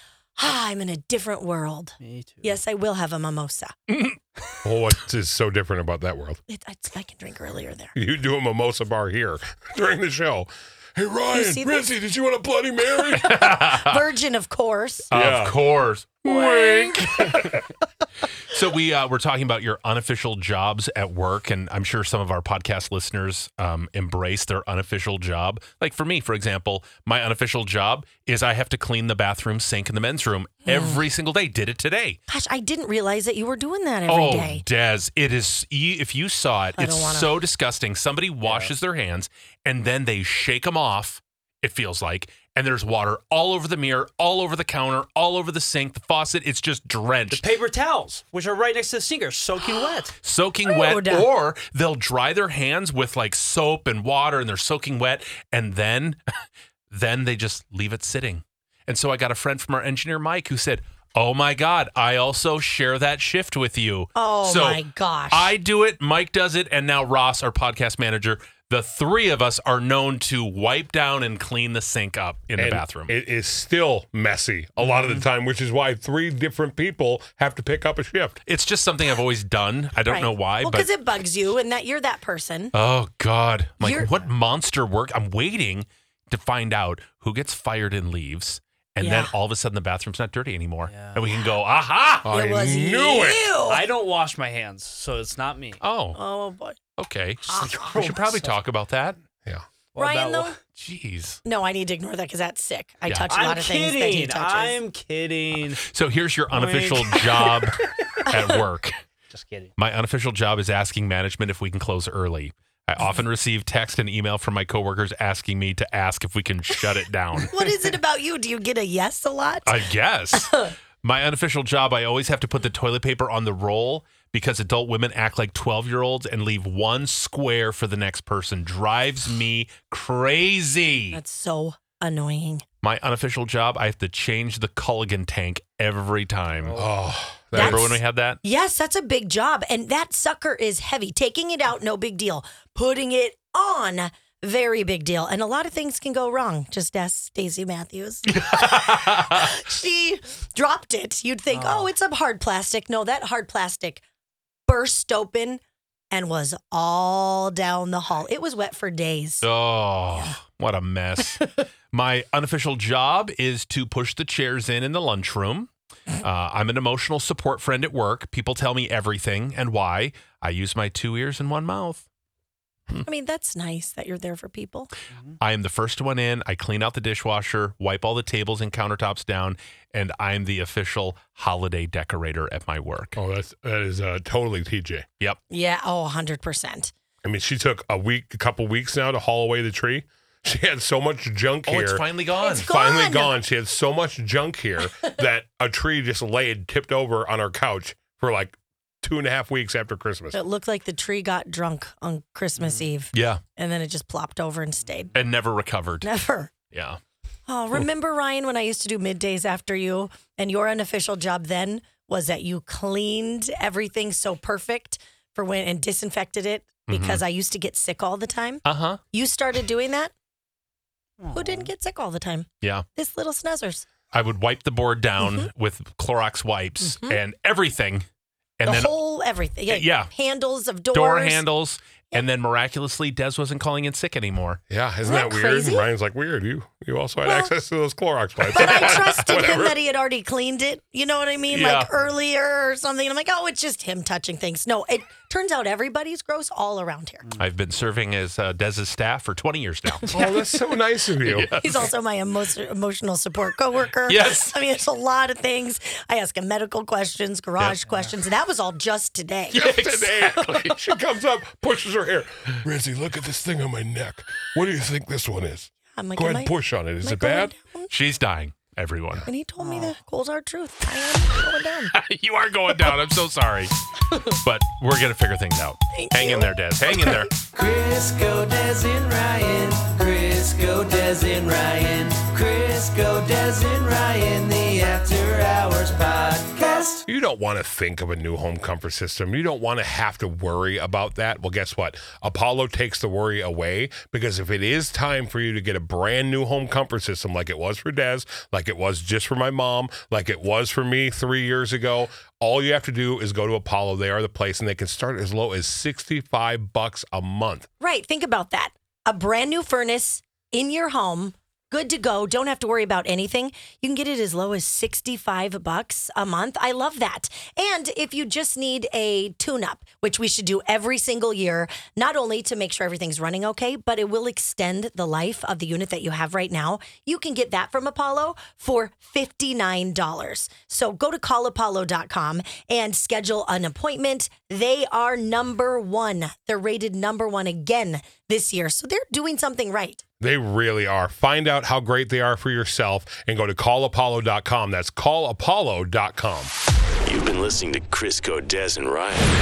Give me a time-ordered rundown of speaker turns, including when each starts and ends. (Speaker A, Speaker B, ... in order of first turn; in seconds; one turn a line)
Speaker A: 0.4-3.7
Speaker B: 2.0-2.6
Speaker C: 3.9-4.2
Speaker D: 4.6-6.4
Speaker A: 6.5-7.9
Speaker D: 7.9-13.6
Speaker A: 11.3-11.8
Speaker C: 13.1-14.0
Speaker A: 13.3-15.1
Speaker D: 15.1-15.6
Speaker C: 15.1-17.6
Speaker A: 16.2-17.0
Speaker C: 18.5-32.2
Speaker A: 30.6-31.0
Speaker A: 32.3-34.6
Speaker C: 34.1-47.4
Speaker A: 36.8-37.4
Speaker B: 38.4-38.7
Speaker B: 47.3-50.2
Speaker C: 50.2-56.2
Speaker A: 50.7-51.3
Speaker C: 56.9-73.1
Speaker A: 64.2-65.5
Speaker D: 72.6-78.4
Speaker C: 78.5-80.9
Speaker A: 80.0-82.7
Speaker C: 82.7-92.3
Speaker A: 83.8-84.1
Speaker A: 89.0-89.3
Speaker B: 90.9-91.2
Speaker D: 92.2-93.5
Speaker A: 92.3-93.8
Speaker B: 93.6-95.8
Speaker C: 95.8-96.2
Speaker A: 96.1-96.8
Speaker C: 97.0-99.2
Speaker A: 97.4-97.9
Speaker B: 97.5-98.5
Speaker B: 99.9-100.6
Speaker A: 100.0-100.5
Speaker C: 100.8-101.4
Speaker A: 101.4-104.8
Speaker B: 103.3-105.8
Speaker C: 105.8-109.0
Speaker B: 106.5-108.3
Speaker B: 109.3-109.7
Speaker C: 109.8-117.5
Speaker A: 117.4-119.8
Speaker C: 119.7-131.2
Speaker A: 131.1-132.6
Speaker C: 132.8-136.8
Speaker B: 136.6-136.9
Speaker D: 136.8-138.0
Speaker A: 137.5-154.0
Speaker C: 137.5-138.4
Speaker C: 148.3-149.6
Speaker B: 151.5-151.9
Speaker A: 154.7-155.6
Speaker A: 156.1-159.5
Speaker C: 159.4-172.0
Speaker A: 173.0-174.9
Speaker C: 175.4-183.2
Speaker D: 183.2-185.1
Speaker A: 185.5-186.9
Speaker D: 187.2-200.4
Speaker C: 191.7-192.7
Speaker A: 192.4-193.3
Speaker A: 200.3-205.2
Speaker B: 202.6-202.8
Speaker C: 203.1-203.4
Speaker C: 205.1-206.1
Speaker A: 206.0-206.5
Speaker C: 206.7-207.0
Speaker A: 207.5-220.1
Speaker C: 216.9-217.2
Speaker C: 218.6-219.0
Speaker B: 221.2-221.7
Speaker A: 221.3-223.8
Speaker C: 224.1-228.1
Speaker A: 225.2-225.5
Speaker A: 226.8-227.2
Speaker C: 228.6-228.9
Speaker A: 228.6-231.4
Speaker C: 229.7-230.1
Speaker C: 230.9-234.6
Speaker D: 234.7-239.7
Speaker A: 235.0-235.9
Speaker A: 237.2-237.5
Speaker A: 238.5-247.2
Speaker C: 238.6-239.2
Speaker C: 241.5-241.9
Speaker C: 247.4-250.1
Speaker D: 250.1-251.5
Speaker C: 251.2-251.9
Speaker A: 251.6-259.7
Speaker C: 254.1-254.5
Speaker C: 259.5-260.8
Speaker D: 259.5-267.5
Speaker A: 265.9-267.9
Speaker C: 267.9-269.3
Speaker A: 269.2-271.9
Speaker B: 269.6-269.9
Speaker C: 271.9-277.3
Speaker A: 275.9-276.5
Speaker E: 277.4-287.0
Speaker D: 287.1-307.7
Speaker A: 307.8-340.0
Speaker D: 340.2-346.5
Speaker F: 347.0-349.3